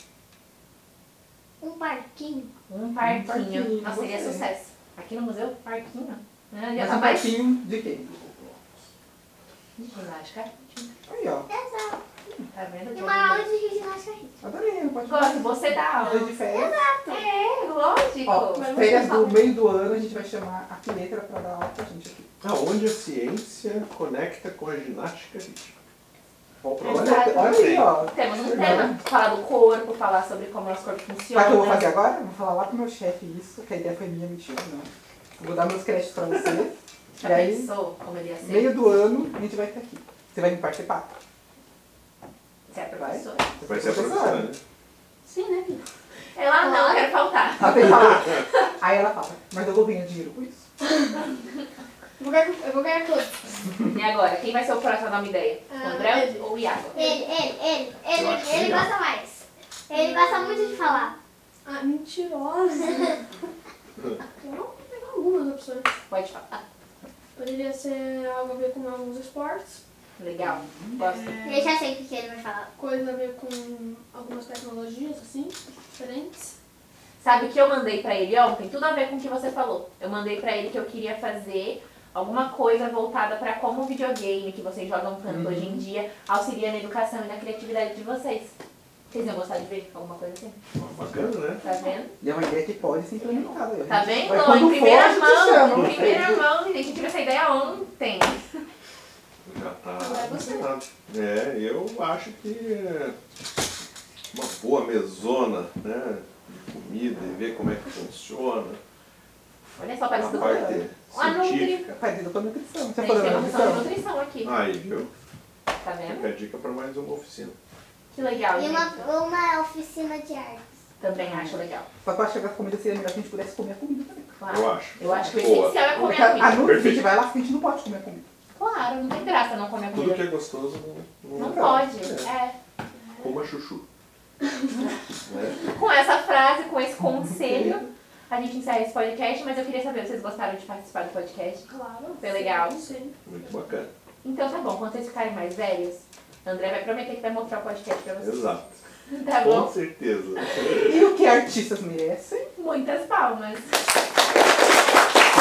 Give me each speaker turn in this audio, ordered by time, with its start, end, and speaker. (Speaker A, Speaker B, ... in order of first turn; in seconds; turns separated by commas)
Speaker A: 1.6-2.5, Speaker B: 2.7-7.4, Speaker C: 3.0-4.5, Speaker C: 6.8-8.7, Speaker B: 9.8-10.9, Speaker C: 11.1-11.5, Speaker A: 11.5-12.0, Speaker B: 12.5-13.5, Speaker A: 12.9-14.4, Speaker C: 14.4-16.8, Speaker B: 15.1-16.3, Speaker A: 16.0-17.2, Speaker B: 17.1-18.7, Speaker C: 18.2-22.3, Speaker D: 18.6-19.5, Speaker E: 22.4-25.8, Speaker E: 26.6-28.9, Speaker C: 26.8-29.0, Speaker B: 26.8-31.9, Speaker C: 31.3-37.7, Speaker B: 37.2-39.0, Speaker C: 38.4-41.1, Speaker B: 42.7-43.5, Speaker C: 43.0-44.5, Speaker E: 43.7-44.6, Speaker D: 45.2-45.9, Speaker B: 46.3-48.7, Speaker A: 46.7-47.0, Speaker C: 47.6-50.7, Speaker D: 52.2-53.6, Speaker B: 53.9-57.1, Speaker D: 55.7-57.1, Speaker A: 57.0-61.1, Speaker E: 58.1-58.9, Speaker D: 59.9-61.1, Speaker D: 61.6-63.2, Speaker D: 64.4-65.9, Speaker B: 66.1-66.6, Speaker D: 67.3-69.8, Speaker B: 70.2-71.4, Speaker C: 70.4-71.0, Speaker D: 71.0-71.8, Speaker A: 71.4-72.7, Speaker D: 72.8-76.5, Speaker B: 77.2-88.5, Speaker C: 85.3-85.8, Speaker B: 89.1-90.6, Speaker E: 90.7-91.6, Speaker B: 91.6-92.1, Speaker C: 92.2-96.5, Speaker B: 93.9-98.4, Speaker E: 99.5-103.2, Speaker D: 100.0-100.6, Speaker E: 104.3-108.8, Speaker B: 109.8-111.9, Speaker E: 110.2-112.0, Speaker C: 110.2-110.8, Speaker C: 111.9-113.9, Speaker B: 113.0-114.6, Speaker E: 114.4-115.1, Speaker B: 115.8-116.3, Speaker E: 116.0-117.6, Speaker B: 118.1-119.1, Speaker A: 118.3-120.7, Speaker B: 121.0-121.9, Speaker C: 121.2-124.4, Speaker B: 124.4-126.7, Speaker E: 124.5-125.8, Speaker C: 125.0-125.3, Speaker C: 125.9-128.2, Speaker E: 126.5-127.1, Speaker B: 128.6-130.3, Speaker E: 129.9-132.3, Speaker B: 131.4-132.6, Speaker C: 131.4-131.9, Speaker D: 132.9-133.4, Speaker E: 133.2-133.8, Speaker E: 135.3-135.7, Speaker B: 135.7-141.7, Speaker C: 137.4-137.9, Speaker D: 141.7-143.2, Speaker B: 142.2-142.8, Speaker E: 143.3-143.9, Speaker B: 144.2-148.5, Speaker E: 148.2-148.8, Speaker B: 149.1-149.7, Speaker E: 149.3-151.0, Speaker C: 150.8-152.5, Speaker B: 152.6-153.8